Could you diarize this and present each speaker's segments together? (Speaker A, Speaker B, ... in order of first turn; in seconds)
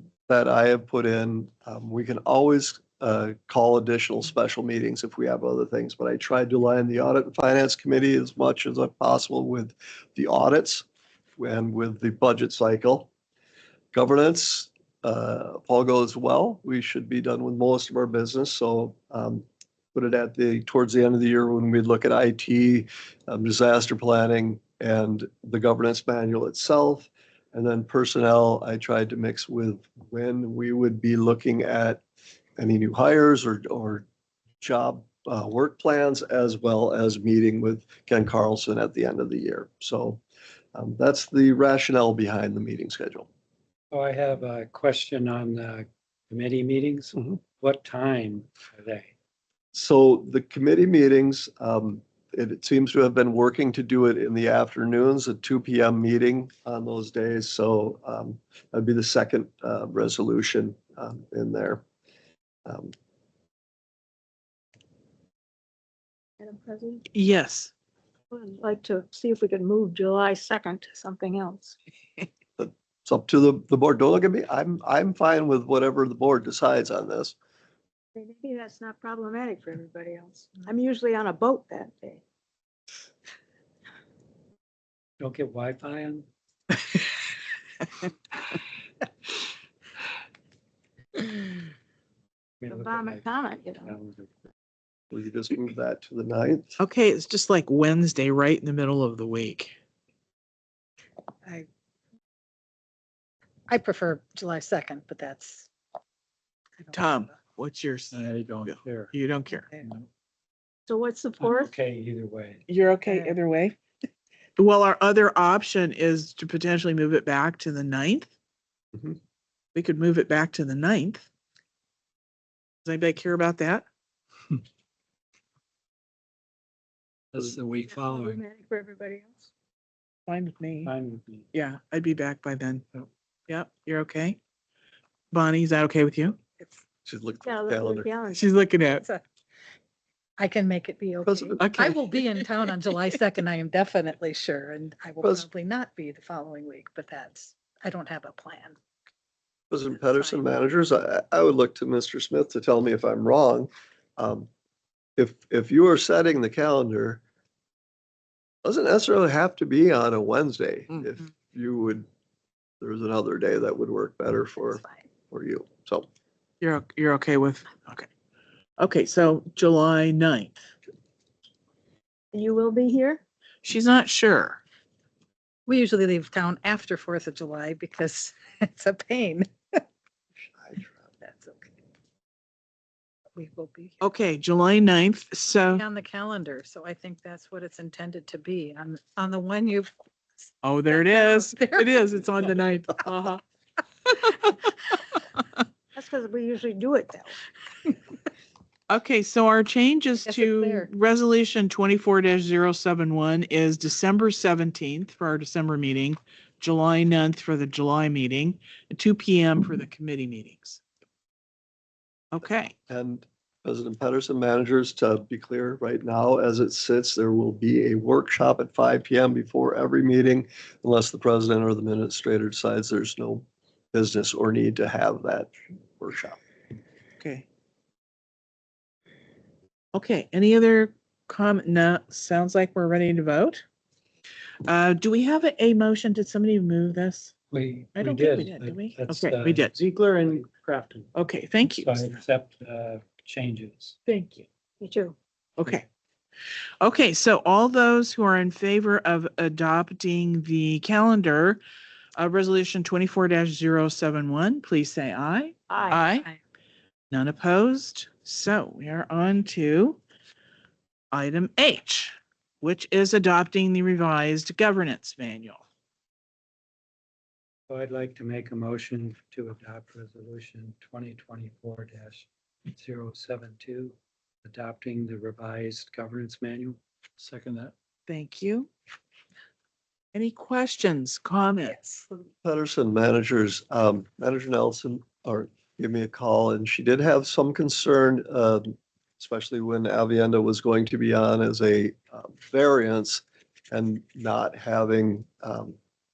Speaker A: 0.3-10.8, 11.4-13.1, 13.9-32.0, 32.6-34.0, 34.6-40.2, 40.8-43.3, 49.7-61.8, 62.7-62.9, 72.6-77.3, 95.1-96.8, 137.1-138.1, 141.2-141.7, 149.7-154.5, 155.2-157.2, 158.6-162.1, 162.8-166.1, 180.6-181.0, 212.9-226.4, 282.4-295.8
Speaker B: 43.9-49.1, 85.2-86.3, 92.6-93.3, 93.8-94.3, 108.1-109.2, 109.8-110.1, 111.4-112.7, 127.3-128.4, 130.8-131.5, 237.5-241.1, 241.6-244.0, 267.7-277.7
Speaker C: 66.4-67.0, 68.3-71.8, 78.2-82.2, 92.7-94.0, 110.9-111.7, 127.9-129.5, 137.4-138.5, 172.3-173.2, 195.9-197.4, 244.8-245.2, 255.7-256.2
Speaker D: 67.1-67.7, 96.8-99.8, 106.9-109.7, 112.7-113.8, 114.6-118.3, 119.7-121.3, 122.8-123.9, 130.3-130.9, 131.5-132.9, 133.5-134.4, 135.3-136.4, 138.3-139.1, 141.6-142.5, 166.6-168.1, 168.8-170.6, 173.6-174.6, 184.0-185.8, 190.6-193.4, 194.1-194.6, 198.9-210.8, 212.3-212.7, 227.2-227.4, 229.9-233.6, 234.7-237.3, 237.9-239.8, 241.2-242.2, 244.1-244.5, 245.6-245.9, 246.8-251.6, 252.2-256.3, 257.1-260.0, 261.1-265.6, 278.1-278.7, 280.1-281.9
Speaker E: 103.7-105.7, 106.8-107.2, 113.1-113.4, 138.9-139.2, 140.4-148.8, 149.9-150.7, 164.7-165.1, 175.7-179.8, 181.2-181.7, 183.3-184.1, 185.5-189.9, 190.9-192.0, 200.2-200.9